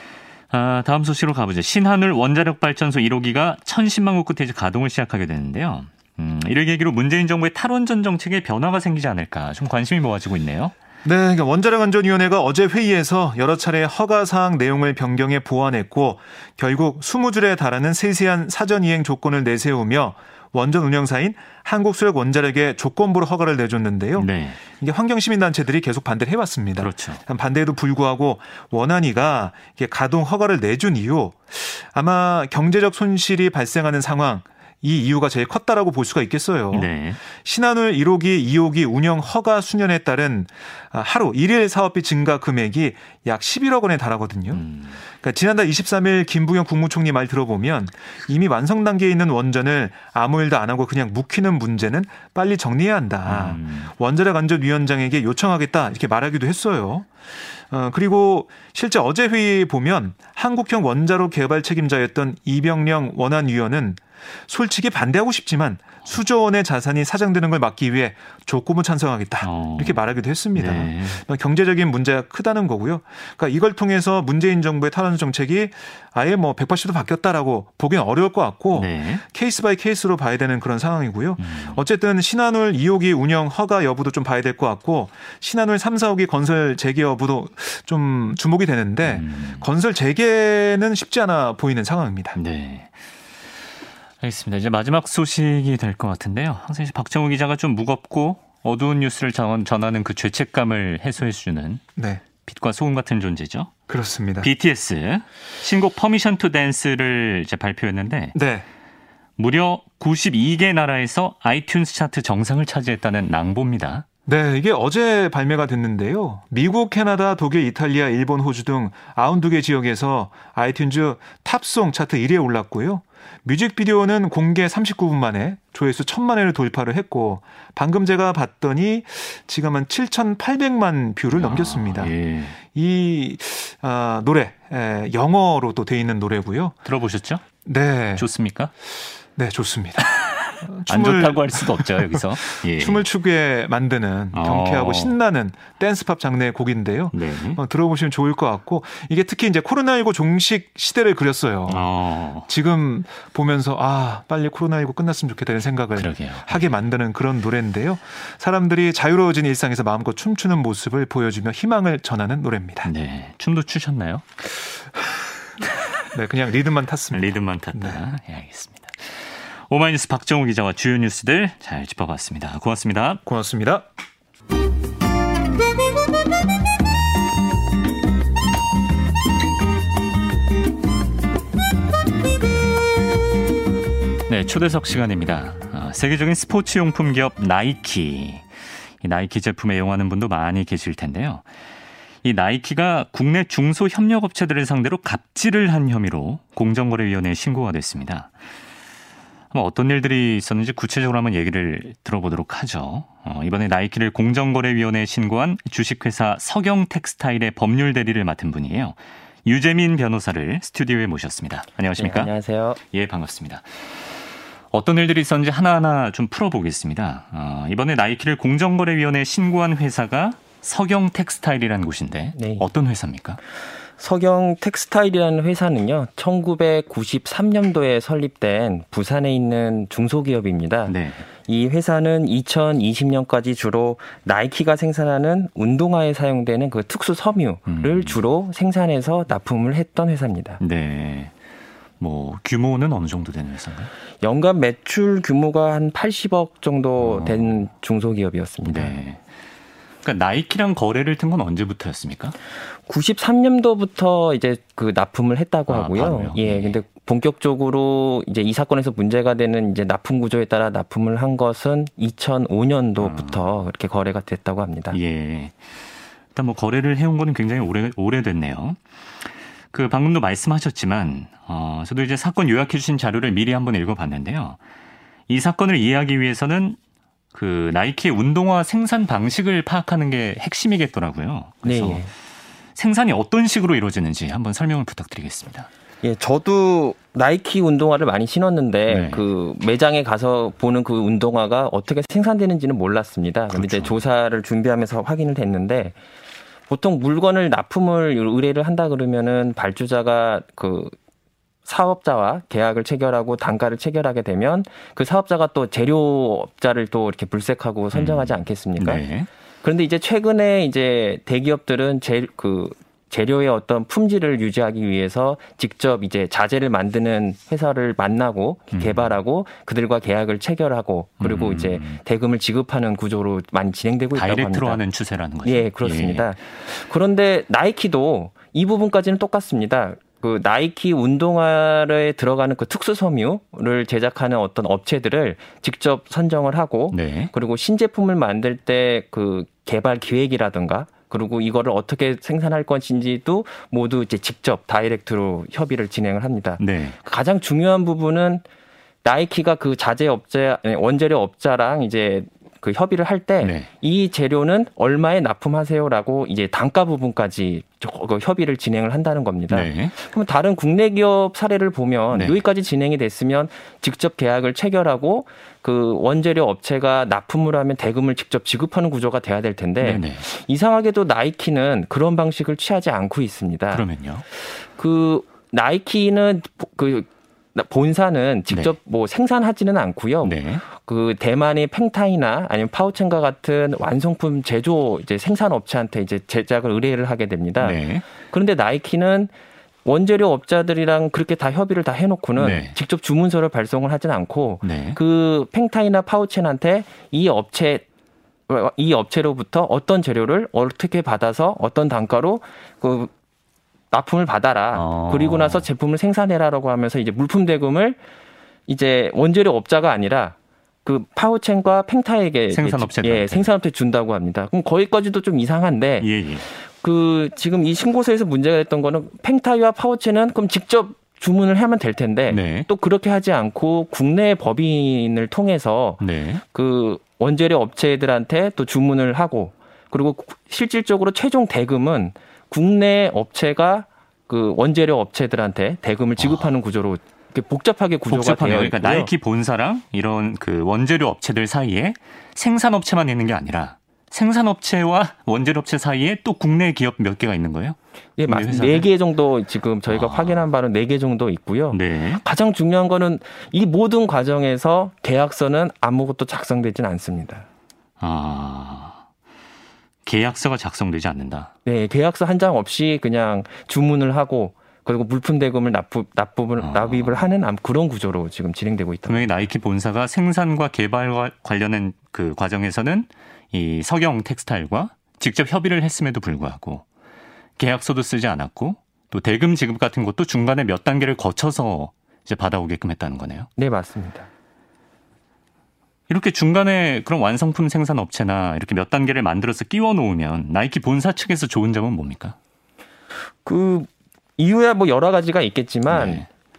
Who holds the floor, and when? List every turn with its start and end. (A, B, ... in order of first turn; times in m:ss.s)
0:00.5-0:10.7 A
0:11.0-0:57.1 B
0:24.2-0:24.6 A
0:26.8-0:27.2 A
0:36.7-0:37.2 A
0:44.5-0:45.0 A
0:53.2-0:53.9 A
0:57.7-1:32.4 B
1:09.4-1:10.0 A
1:10.5-1:11.2 A
1:18.7-1:19.2 A
1:21.4-1:21.8 A
1:29.0-1:29.6 A
1:32.3-1:32.9 A
1:34.2-1:41.8 A
1:42.0-1:42.2 B
1:42.4-1:43.7 A
1:43.9-1:44.5 B
1:44.4-1:48.4 A
1:48.3-1:48.6 B
1:49.4-1:54.0 A
1:54.2-2:16.8 B
2:11.3-2:12.6 A
2:16.8-2:17.4 A
2:17.6-2:18.3 B
2:18.2-2:18.7 A
2:19.4-2:20.1 B
2:20.0-2:23.0 A
2:20.6-2:31.8 B
2:24.3-2:25.2 A
2:27.1-2:27.6 A
2:31.7-2:32.5 A
2:32.5-2:42.9 B
2:36.0-2:36.7 A
2:42.8-2:44.2 A
2:46.1-2:48.0 B
2:47.1-2:53.2 A
2:53.2-2:53.8 B
3:04.3-3:08.4 A
3:09.0-3:11.4 A
3:12.2-3:18.3 A
3:19.5-3:32.3 A
3:32.0-3:32.8 C
3:32.9-3:34.2 A
3:34.7-3:43.4 A
3:42.4-3:42.6 C
3:44.0-3:50.9 C
3:50.9-3:51.2 A
3:51.4-4:00.6 C
3:57.7-3:58.2 A
4:00.6-4:01.3 A
4:02.0-4:03.9 A
4:04.2-4:09.0 C
4:07.0-4:07.6 A
4:08.6-4:09.2 A
4:10.0-4:12.3 A
4:12.9-4:25.0 C
4:15.7-4:16.8 A
4:23.0-4:23.4 A
4:24.9-4:25.6 A
4:26.3-4:28.8 A
4:29.7-4:34.6 A
4:35.3-4:36.8 A
4:37.3-4:42.0 A
4:41.6-4:42.1 C
4:42.8-4:45.7 A
4:46.0-4:55.9 C
4:48.9-4:49.2 A
4:53.5-4:54.0 A
4:56.7-5:01.0 C
5:01.6-5:09.0 C
5:07.9-5:09.3 A
5:09.6-5:24.8 C
5:18.7-5:19.2 A
5:21.2-5:22.0 A
5:24.1-5:26.3 A
5:25.4-5:48.4 C
5:36.9-5:37.3 A
5:46.6-5:47.0 A
5:49.0-6:29.3 C
5:53.4-5:53.7 A
5:59.5-5:59.9 A
6:02.1-6:02.4 A
6:09.8-6:10.2 A
6:13.7-6:14.2 A
6:20.2-6:20.6 A
6:27.6-6:28.0 A
6:29.8-6:37.8 C
6:32.4-6:32.7 A
6:34.6-6:35.0 A
6:38.5-6:43.1 C
6:43.9-6:48.0 C
6:44.7-6:45.7 A
6:48.7-7:19.1 C
6:52.5-6:53.5 A
6:56.0-6:56.4 A
7:02.3-7:02.7 A
7:06.0-7:06.4 A
7:16.2-7:16.5 A
7:18.1-7:28.9 A
7:28.2-7:37.4 C
7:29.9-7:30.5 A
7:31.7-7:32.2 A
7:38.0-7:39.0 A
7:40.0-7:41.5 A
7:41.6-7:49.3 C
7:46.6-7:47.3 A
7:49.1-7:56.8 A
7:57.6-8:03.5 A
8:03.6-8:04.3 C
8:06.1-8:12.4 A
8:13.4-8:16.2 C
8:15.9-8:16.3 A